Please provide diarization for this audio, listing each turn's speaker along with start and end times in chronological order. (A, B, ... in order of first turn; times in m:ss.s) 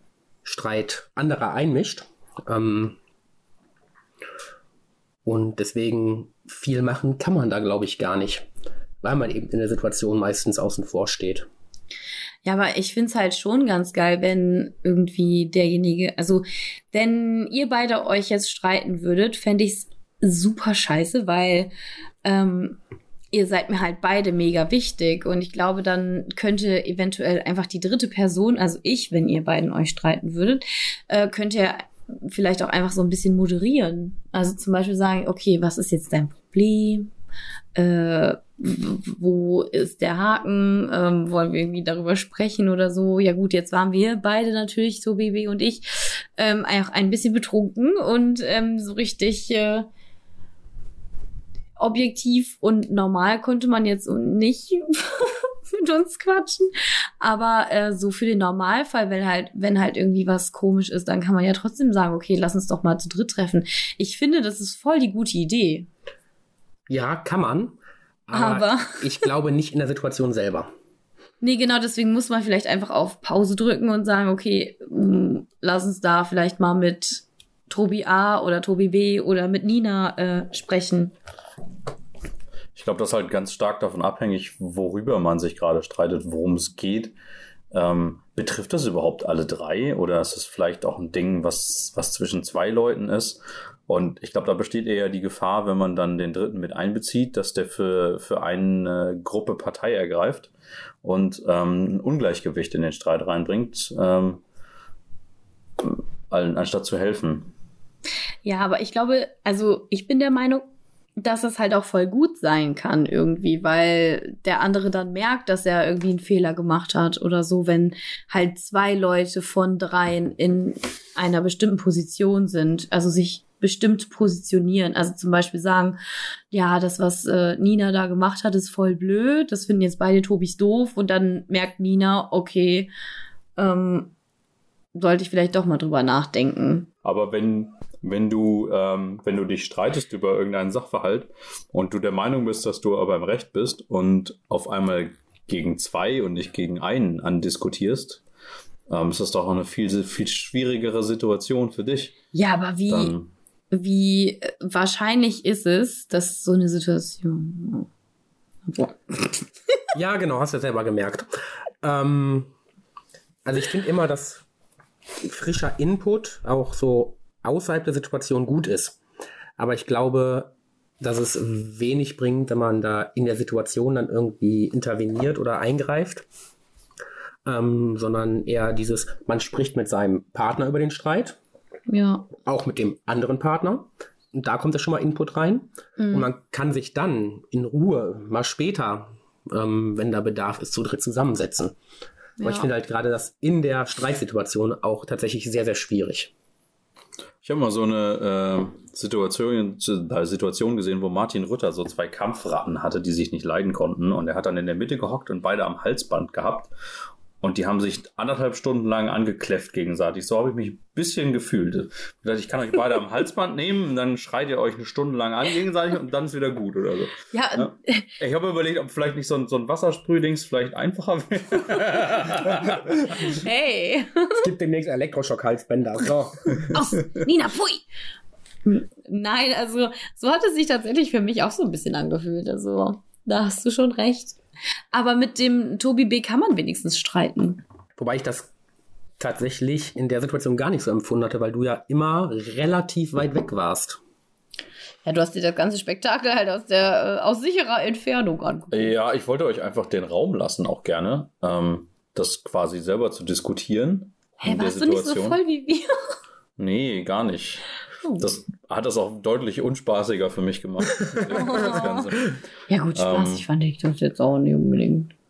0:00.4-0:03.0 A
0:05.2-0:08.5 A
0:09.0-0:11.5 A
0:12.4-0:21.7 B
0:22.2-0:22.8 B
0:23.3-0:37.1 B
0:37.8-0:49.9 B
0:51.8-1:05.9 B
1:06.9-1:10.7 A
1:08.3-1:09.3 B
1:11.4-1:21.2 B
1:22.8-1:27.2 C
1:27.7-1:40.5 C
1:41.0-1:44.4 C
1:45.8-1:47.5 C
1:48.4-1:50.6 B
1:51.2-2:06.0 B
2:06.5-2:12.9 B
2:13.6-2:14.1 B
2:15.0-2:16.9 B
2:17.0-2:28.2 C
2:28.9-2:32.2 C
2:32.3-2:33.1 B
2:32.9-2:33.3 C
2:33.7-2:37.9 B
2:38.7-2:39.4 B
2:39.9-2:41.3 A
2:41.8-2:42.5 A
2:43.4-2:44.4 A
2:45.2-2:49.0 A
2:49.6-2:56.3 A
2:57.5-3:01.4 A
3:01.9-3:02.3 B
3:02.4-3:11.8 A
3:06.0-3:06.3 B
3:12.4-3:12.7 B
3:12.4-3:16.3 A
3:17.4-3:26.7 C
3:27.4-3:43.2 C
3:37.3-3:38.1 B
3:43.2-3:44.5 B
3:44.3-3:46.8 A
3:46.6-3:47.8 B
3:48.7-3:54.4 B
3:54.9-3:57.6 B
3:58.0-3:58.5 A
3:59.2-4:04.0 A
4:05.0-4:08.9 B
4:08.7-4:15.4 C
4:14.4-4:15.9 B
4:16.6-4:17.6 C
4:18.2-4:22.3 C
4:21.3-4:22.0 B
4:22.7-4:25.1 B
4:22.9-4:23.5 C